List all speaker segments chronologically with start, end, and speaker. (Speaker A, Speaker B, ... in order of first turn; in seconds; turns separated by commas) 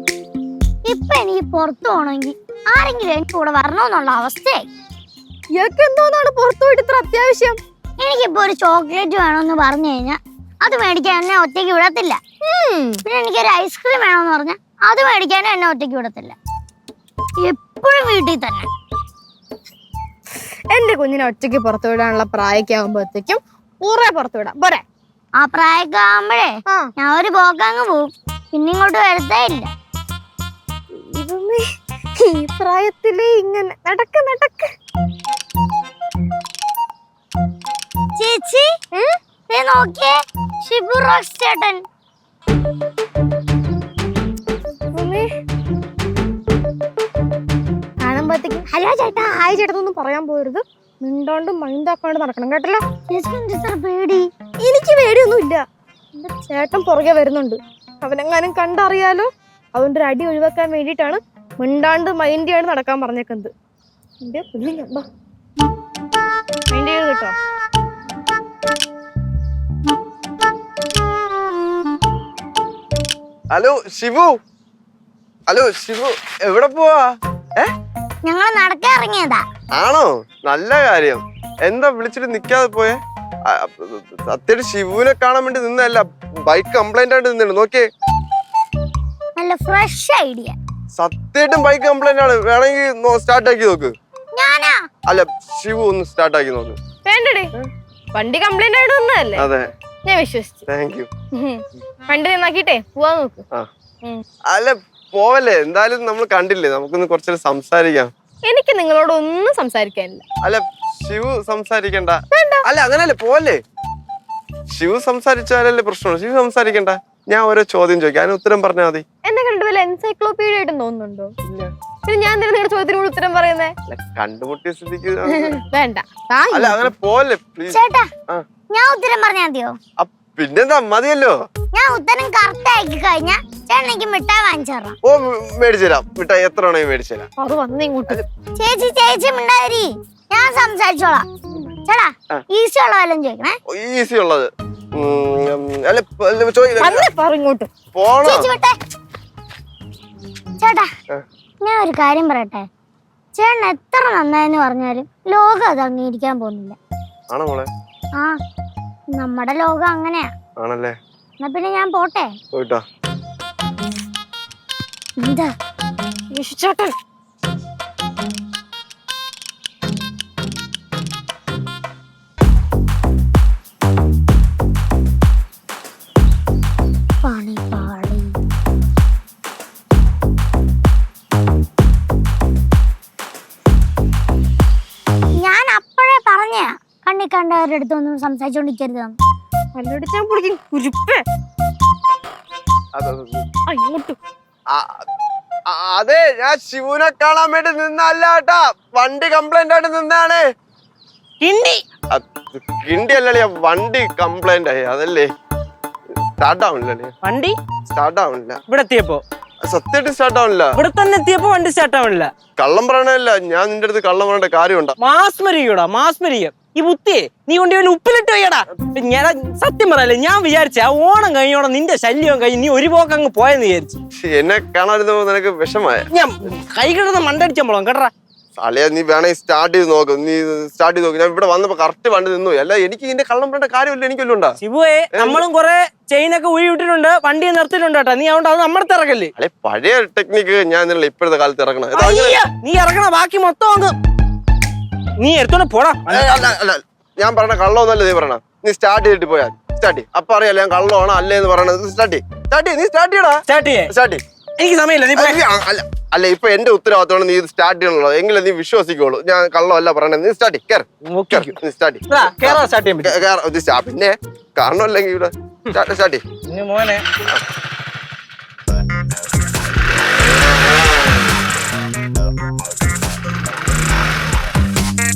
Speaker A: 0.9-4.7, Speaker B: 5.5-7.5, Speaker A: 8.0-12.2, Speaker B: 12.5-13.0, Speaker A: 13.0-16.3, Speaker A: 17.4-18.7, Speaker B: 20.7-24.8, Speaker A: 25.4-29.7, Speaker B: 31.1-31.6, Speaker B: 32.2-34.6, Speaker A: 38.2-38.7, Speaker A: 39.5-41.9, Speaker B: 45.0-45.2, Speaker B: 48.0-48.6, Speaker A: 48.7-49.4, Speaker B: 49.5-52.8, Speaker A: 53.1-54.3, Speaker B: 54.6-55.6, Speaker B: 56.2-63.5, Speaker B: 64.2-65.0, Speaker B: 66.7-67.3, Speaker C: 73.5-74.3, Speaker C: 75.5-77.0, Speaker A: 78.2-79.4, Speaker C: 79.8-87.8, Speaker A: 89.3-90.5, Speaker C: 90.9-93.9, Speaker A: 94.3-94.8, Speaker C: 95.1-96.8, Speaker B: 97.1-97.4, Speaker B: 98.2-99.3, Speaker C: 99.4-99.7, Speaker B: 100.1-100.5, Speaker C: 100.7-101.1, Speaker B: 102.1-103.4, Speaker C: 104.5-108.1, Speaker B: 108.5-110.2, Speaker C: 110.4-113.6, Speaker C: 114.7-119.0, Speaker B: 119.3-121.3, Speaker C: 121.4-121.7, Speaker B: 122.1-123.7, Speaker C: 123.9-125.5, Speaker B: 125.5-126.8, Speaker C: 126.5-128.4, Speaker A: 127.7-128.1, Speaker A: 128.7-129.8, Speaker C: 130.0-131.3, Speaker A: 131.7-134.9, Speaker C: 135.0-137.3, Speaker B: 137.4-138.2, Speaker A: 138.6-141.2, Speaker A: 141.8-143.6, Speaker C: 143.7-147.1, Speaker B: 146.8-147.7, Speaker C: 147.9-148.5, Speaker A: 148.2-148.7, Speaker A: 150.6-150.9, Speaker A: 151.6-152.7, Speaker A: 153.3-156.8, Speaker C: 157.3-157.7, Speaker A: 159.2-160.3, Speaker C: 160.6-160.9, Speaker A: 161.4-162.3, Speaker C: 162.5-162.8, Speaker A: 165.2-165.5, Speaker B: 166.4-166.8, Speaker A: 177.2-178.3, Speaker A: 185.4-189.1, Speaker B: 189.8-191.2, Speaker C: 192.9-193.4, Speaker B: 193.7-194.1, Speaker C: 194.7-195.0, Speaker C: 195.7-200.4, Speaker D: 201.4-201.8, Speaker C: 202.1-205.3, Speaker C: 206.4-207.1, Speaker D: 207.2-207.5, Speaker C: 207.9-208.6, Speaker D: 208.7-209.2, Speaker C: 209.7-210.8, Speaker D: 210.7-212.3, Speaker C: 212.6-214.9, Speaker D: 215.0-224.0, Speaker C: 224.2-226.1, Speaker D: 226.1-228.1, Speaker C: 228.6-234.6, Speaker D: 234.6-239.3, Speaker C: 235.1-235.4, Speaker C: 239.4-242.4, Speaker D: 241.9-244.0, Speaker D: 245.2-246.4, Speaker C: 246.1-254.2, Speaker D: 253.5-253.9, Speaker D: 254.6-255.4, Speaker C: 255.1-266.2, Speaker D: 261.1-261.6, Speaker D: 262.1-263.1, Speaker D: 266.5-267.0